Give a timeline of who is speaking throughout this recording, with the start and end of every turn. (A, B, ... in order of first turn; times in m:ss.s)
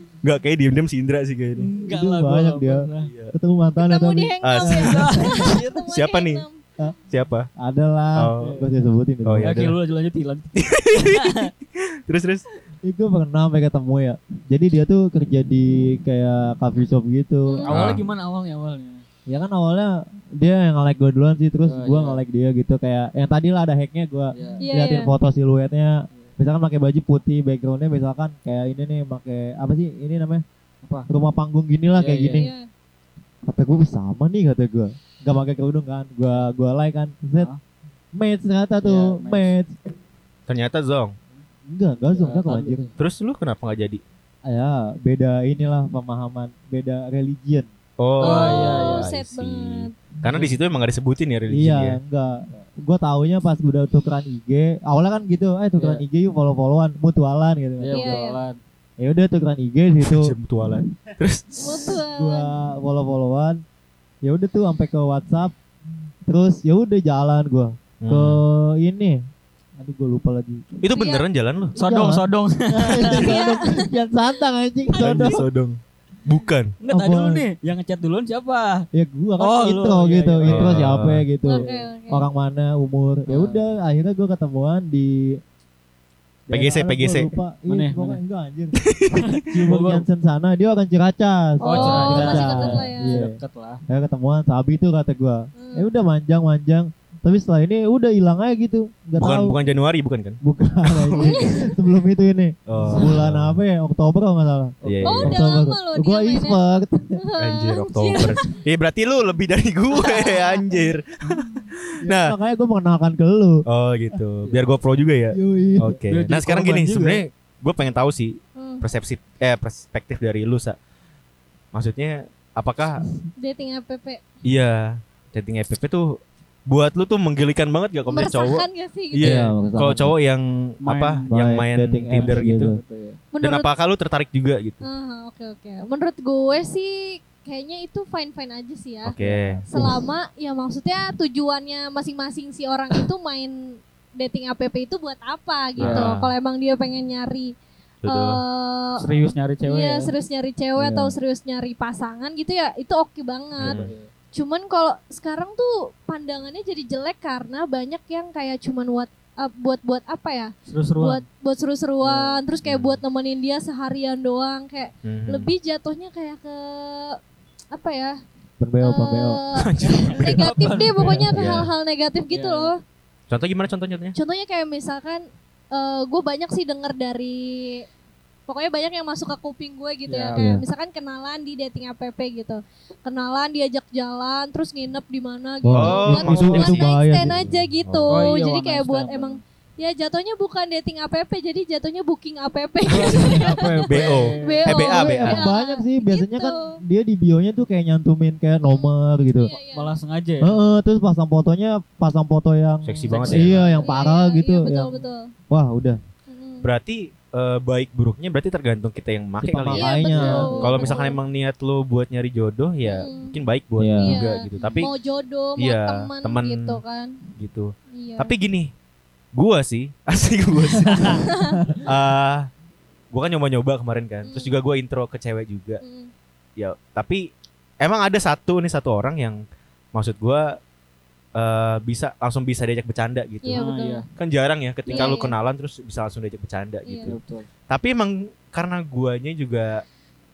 0:00.2-0:01.7 A
0:01.6-0:05.4 B
0:01.8-0:03.1 C
0:03.0-0:03.3 A
0:03.8-0:06.6 D
0:04.4-0:06.4 A
0:04.9-0:05.7 C
0:07.1-0:07.5 A
0:07.6-0:09.7 B
0:08.2-0:08.5 A
0:08.4-0:08.7 C
0:09.2-0:09.6 A
0:09.4-0:11.5 C
0:10.6-0:12.4 A
0:12.8-0:17.7 B
0:17.4-0:17.7 D
0:17.6-0:19.0 C
0:17.7-0:18.0 A
0:19.3-0:30.4 B
0:21.6-0:22.2 C
0:24.3-0:24.6 C
0:24.6-0:25.1 D
0:30.8-0:31.1 C
0:31.1-0:32.5 B
0:32.0-0:32.5 C
0:32.3-0:32.6 D
0:33.5-0:37.5 B
0:38.1-0:39.7 B
0:38.8-0:39.5 C
0:40.5-0:41.1 A
0:41.6-0:42.9 B
0:42.1-0:43.0 C
0:43.0-0:44.0 A
0:44.5-0:47.7 B
0:48.0-0:52.0 A
0:48.2-0:49.1 C
0:48.2-0:49.9 D
0:51.5-0:58.2 B
0:55.8-0:56.0 C
0:57.8-0:58.6 C
0:57.9-0:58.4 D
0:59.0-1:00.3 B
1:00.0-1:02.0 A
1:01.6-1:02.5 D
1:02.1-1:03.6 B
1:04.2-1:05.5 B
1:06.3-1:09.2 B
1:08.0-1:08.4 A
1:09.8-1:10.6 B
1:10.8-1:11.7 A
1:10.9-1:11.2 D
1:11.8-1:13.4 C
1:11.8-1:15.4 B
1:13.1-1:13.9 D
1:15.0-1:16.7 A
1:16.8-1:18.8 C
1:16.9-1:17.4 B
1:18.9-1:25.4 B
1:19.4-1:20.7 C
1:20.4-1:21.2 A
1:21.5-1:22.2 D
1:21.5-1:21.9 C
1:23.3-1:23.6 C
1:26.5-1:28.8 B
1:26.5-1:27.3 A
1:27.7-1:28.2 C
1:28.8-1:29.3 A
1:29.2-1:30.0 C
1:29.5-1:33.3 B
1:31.6-1:33.2 D
1:31.6-1:33.8 C
1:33.9-1:39.5 B
1:35.6-1:35.9 D
1:39.2-1:41.8 A
1:40.4-1:47.1 B
1:41.2-1:41.7 D
1:42.7-1:43.6 A
1:44.8-1:45.2 C
1:44.8-1:45.4 A
1:45.0-1:46.6 D
1:47.2-1:48.5 D
1:47.4-1:52.3 A
1:49.9-1:50.9 D
1:52.0-1:53.6 B
1:53.6-2:00.8 A
1:55.3-1:56.0 B
1:56.1-1:57.2 C
1:58.6-1:58.8 D
2:01.7-2:03.0 A
2:03.4-2:04.2 D
2:04.4-2:12.7 A
2:08.1-2:09.3 D
2:09.2-2:10.1 B
2:10.8-2:11.3 C
2:11.3-2:12.8 B
2:12.1-2:13.2 C
2:13.3-2:13.7 D
2:13.4-2:14.9 A
2:14.8-2:19.1 D
2:19.0-2:19.6 A
2:19.2-2:20.0 B
2:19.7-2:23.5 D
2:24.2-2:27.5 D
2:25.8-2:26.1 C
2:25.8-2:26.3 A
2:28.0-2:28.4 A
2:28.1-2:29.0 D
2:29.0-2:30.1 C
2:29.6-2:47.2 D
2:30.8-2:31.2 B
2:33.6-2:33.9 A
2:33.6-2:34.1 C
2:40.7-2:41.2 C
2:42.0-2:42.4 C
2:42.6-2:43.0 A
2:45.0-2:45.5 A
2:47.7-2:48.2 D
2:48.6-2:49.4 B
2:48.8-2:52.8 D
2:49.5-2:50.5 A
2:49.9-2:51.3 C
2:51.0-2:51.6 B
2:51.3-2:51.7 A
2:52.3-2:52.7 C
2:53.3-2:54.1 A
2:54.1-2:57.8 D
2:58.5-3:13.5 D
3:00.1-3:00.4 C
3:00.4-3:00.6 B
3:05.6-3:07.4 B
3:05.7-3:08.3 A
3:08.1-3:09.4 C
3:12.9-3:14.8 C
3:13.9-3:15.5 A
3:14.4-3:16.8 D
3:14.9-3:19.5 B
3:18.7-3:19.9 D
3:19.7-3:20.5 C
3:20.4-3:25.0 B
3:22.8-3:23.7 A
3:23.1-3:23.8 C
3:23.8-3:25.3 D
3:25.5-3:26.0 B
3:26.3-3:26.7 D
3:26.6-3:34.9 A
3:29.4-3:31.0 B
3:29.7-3:31.2 D
3:30.1-3:30.6 C
3:32.8-3:33.3 D
3:33.8-3:34.2 B
3:34.0-3:37.2 D
3:34.6-3:34.8 C
3:35.6-3:36.8 A
3:37.4-3:38.7 A
3:37.9-3:38.3 D
3:39.3-3:41.3 A
3:40.9-3:41.2 C
3:40.9-3:41.8 D
3:41.8-3:42.5 A
3:43.1-3:45.8 A
3:44.2-3:44.5 D
3:45.8-3:46.1 D
3:46.6-3:47.3 A
3:47.8-3:49.4 A
3:49.9-3:50.6 A
3:51.3-3:53.6 A
3:53.4-3:54.0 D
3:53.5-3:54.0 C
3:54.2-3:57.2 A
3:54.8-3:55.2 C
3:54.9-3:55.3 D
3:56.8-3:57.1 D
3:57.0-3:57.5 C
3:57.7-3:59.8 A